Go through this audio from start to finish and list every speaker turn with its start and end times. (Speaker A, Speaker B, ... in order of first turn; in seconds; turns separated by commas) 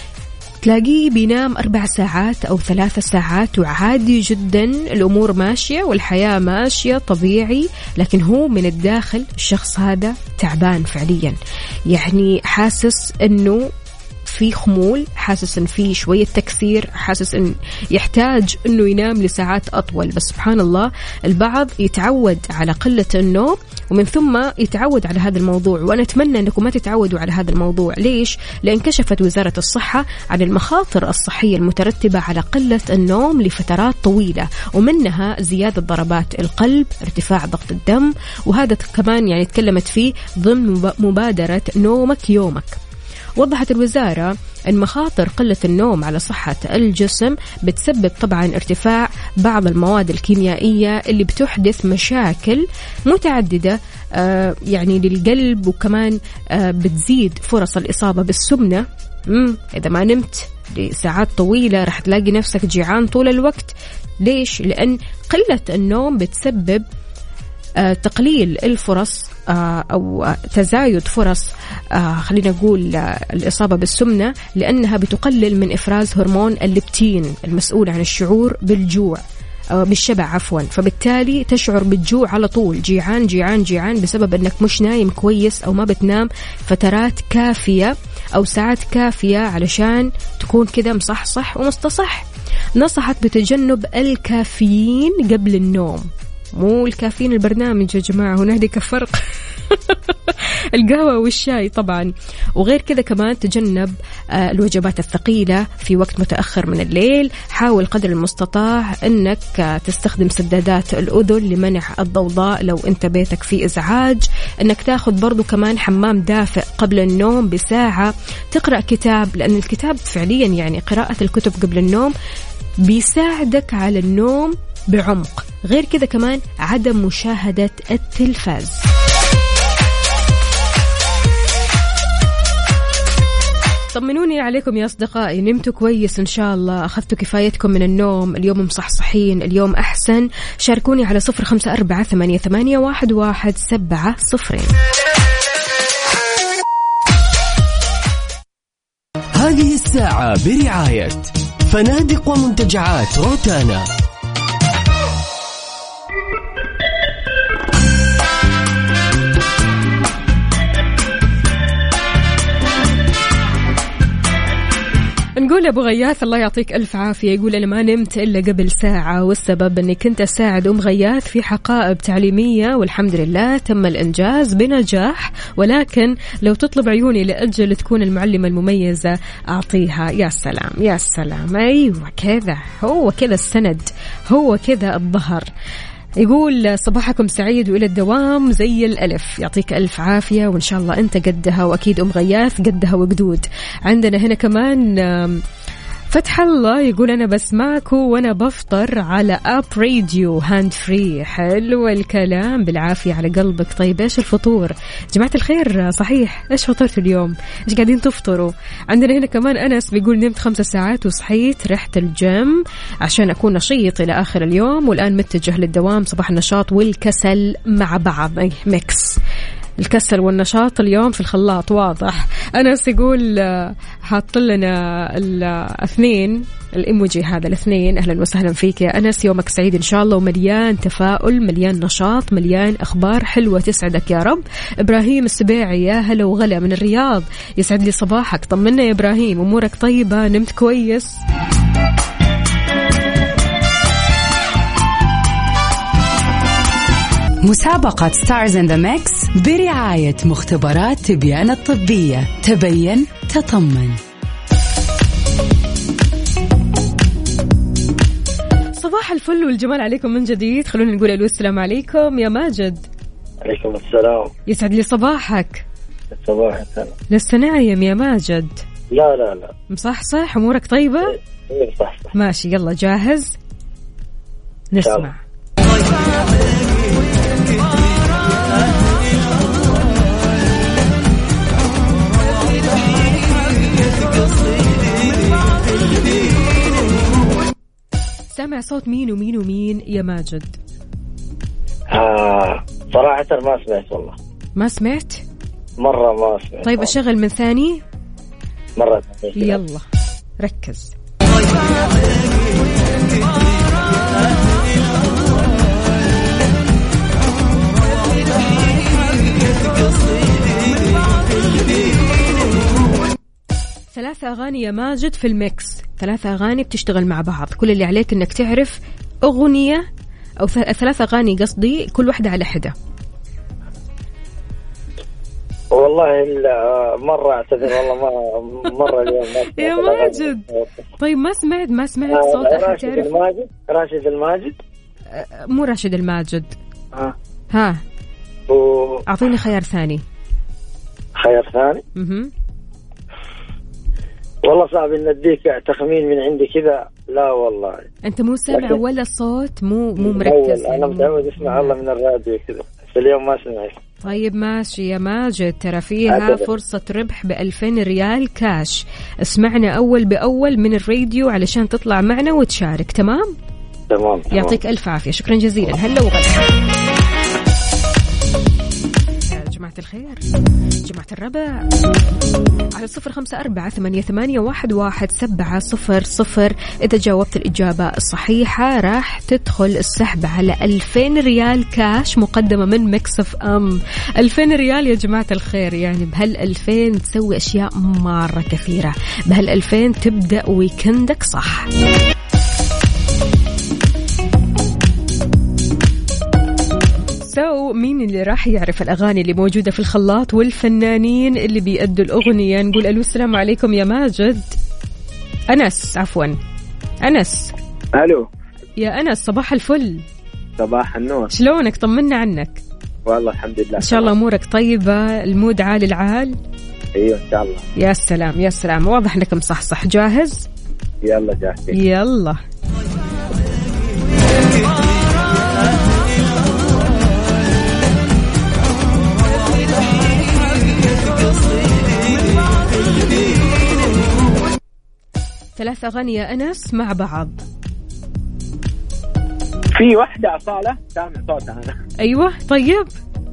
Speaker A: 0.6-11.4, Speaker A: 11.9-13.7, Speaker A: 14.2-42.8, Speaker A: 43.4-66.8, Speaker A: 67.8-79.2, Speaker A: 79.7-122.1, Speaker A: 122.8-128.8, Speaker A: 133.9-144.7, Speaker B: 149.3-153.8, Speaker A: 165.4-185.5, Speaker A: 186.2-195.4, Speaker A: 196.1-219.2, Speaker A: 219.8-241.2, Speaker C: 247.4-254.0, Speaker A: 258.8-262.9, Speaker D: 263.4-264.3, Speaker A: 264.5-265.6, Speaker D: 266.1-266.9, Speaker A: 267.1-268.6, Speaker D: 268.9-269.5, Speaker A: 269.7-271.1, Speaker D: 271.5-272.1, Speaker A: 272.1-273.4, Speaker A: 274.7-275.2, Speaker D: 274.8-275.1, Speaker A: 288.3-290.6, Speaker D: 291.9-294.2, Speaker A: 294.6-295.2, Speaker D: 295.8-296.9, Speaker A: 296.6-297.8, Speaker D: 298.8-299.6, Speaker A: 299.4-299.8, Speaker A: 300.4-300.9, Speaker A: 313.9-319.9, Speaker A: 320.4-322.7, Speaker D: 325.7-330.7, Speaker A: 329.6-330.4, Speaker A: 331.0-333.1, Speaker D: 332.1-334.6, Speaker A: 335.1-336.6, Speaker A: 337.5-337.8, Speaker D: 338.5-339.0, Speaker A: 339.1-340.0, Speaker D: 341.2-341.8, Speaker A: 341.9-342.3, Speaker D: 344.4-347.9, Speaker A: 348.0-351.7, Speaker D: 348.5-348.8, Speaker D: 350.0-353.8, Speaker A: 354.0-363.3, Speaker D: 356.1-356.5, Speaker D: 363.9-364.6, Speaker A: 364.3-366.5, Speaker A: 369.3-370.2, Speaker A: 370.8-371.6, Speaker A: 372.7-391.7, Speaker A: 397.2-404.6, Speaker A: 405.5-406.4, Speaker A: 407.0-407.5, Speaker E: 408.0-408.2, Speaker A: 408.8-410.0, Speaker E: 410.6-411.3, Speaker A: 411.3-412.6, Speaker E: 413.1-414.1, Speaker A: 413.8-416.4, Speaker E: 417.0-417.6, Speaker A: 417.8-420.5, Speaker E: 421.1-421.7, Speaker A: 421.7-422.4, Speaker A: 435.6-437.4, Speaker E: 439.7-441.7, Speaker A: 442.0-442.9